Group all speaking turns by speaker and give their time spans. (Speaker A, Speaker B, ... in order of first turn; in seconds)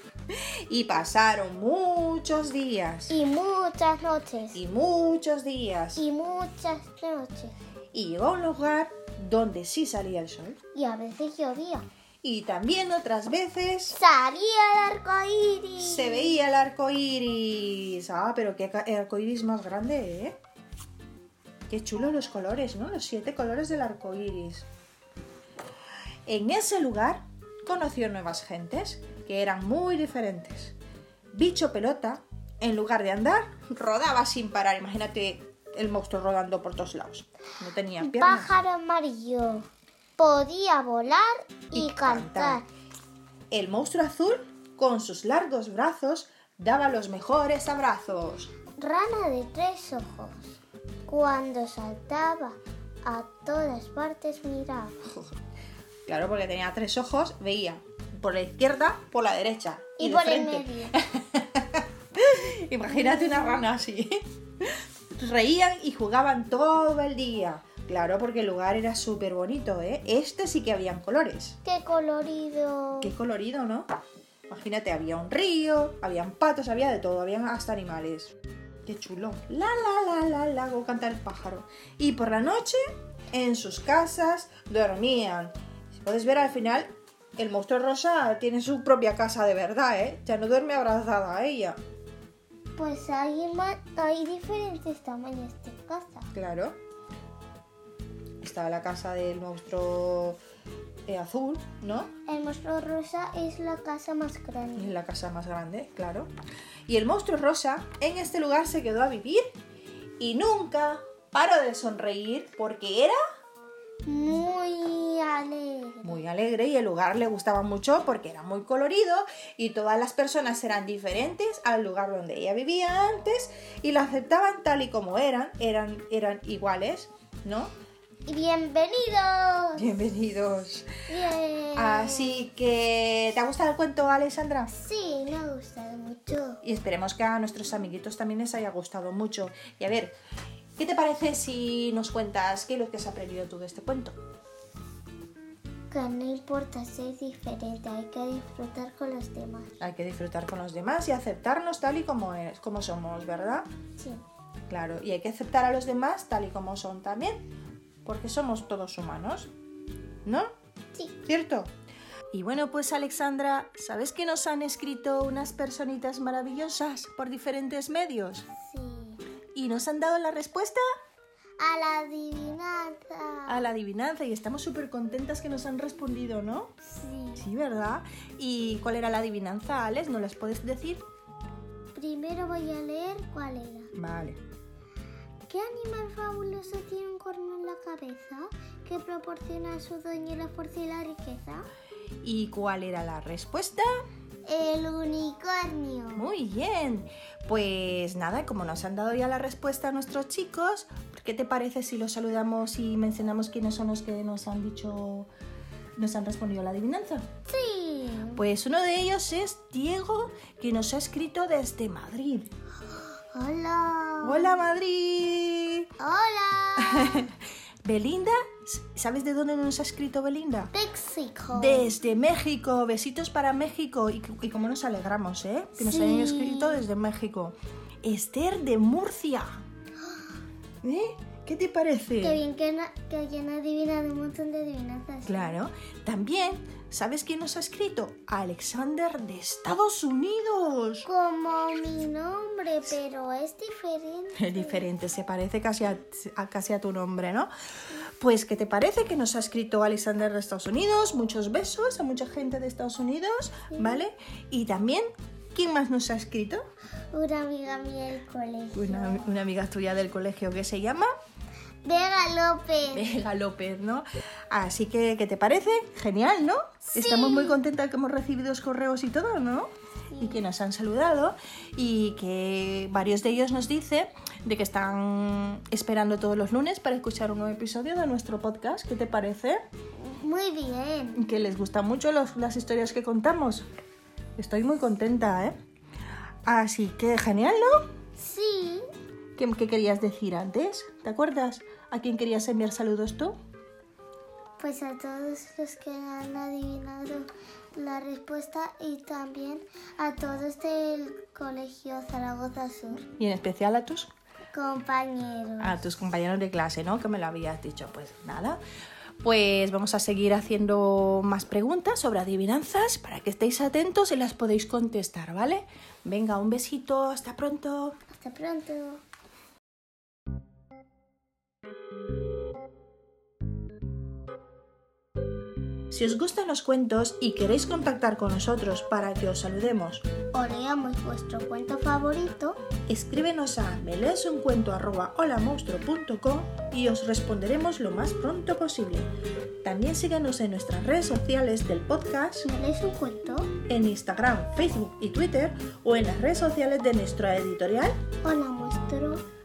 Speaker A: 0.3-3.1, 4.5-6.0, 7.9-10.6, 12.2-14.0, 15.8-20.4, 21.7-24.7, 26.3-30.8, 31.3-38.5, 41.7-42.6, 43.5-48.5, 55.1-55.4, 56.1-71.6, 73.0-73.9, 74.5-78.3, 78.8-82.8, 83.3-91.8, 96.3-96.8, 98.4-100.4, 101.1-102.1, 104.8-106.3, 106.9-109.4, 110.2-113.2, 116.0-127.7, 129.8-130.9, 131.8-134.7, 136.6-140.2, 140.8-144.2, 149.8-153.7, 154.7-157.5, 158.1-159.5, 160.2-160.5, 161.2-161.7, 162.3-168.5, 169.5-170.8, 173.5-176.7, 177.4-181.0, 183.9-184.4, 192.2-193.9, 196.2-205.3, 206.0-207.2, 208.4-212.5, 214.2-215.9, 216.8-220.7, 221.5-229.6, 230.8-232.4, 235.2-241.1, 244.4-247.5, 248.2-256.6, 258.7-261.1, 262.9-279.6, 281.1-283.6, 284.4-285.6, 286.5-287.9, 289.4-293.4, 303.2-304.1, 305.6-308.6, 309.2-318.0, 325.9-330.1, 332.9-339.1, 339.6-342.5, 343.7-348.0
Speaker B: 3.1-4.6, 6.0-7.5, 10.7-11.9, 13.9-16.4, 38.0-42.7, 48.8-55.0, 60.0-61.0, 62.9-63.7, 71.7-73.1, 92.8-96.3, 102.2-105.0, 114.0-116.2, 128.2-130.0, 131.1-132.5, 134.7-136.6, 145.9-149.8, 154.0-154.2, 168.6-169.2, 171.6-173.7, 176.8-177.5, 181.9-183.9, 185.5-191.7, 194.4-196.2, 207.5-208.4, 212.9-214.6, 216.0-217.3, 220.7-221.9, 225.8-226.8, 232.2-235.6, 241.1-244.8, 253.7-254.0, 257.1-259.3, 261.8-263.2, 266.9-267.6, 270.1-270.4, 280.0-281.2, 288.2-288.9, 294.6-303.1, 304.5-305.9, 318.1-319.0, 330.3-332.6, 342.4-343.5, 348.2-349.2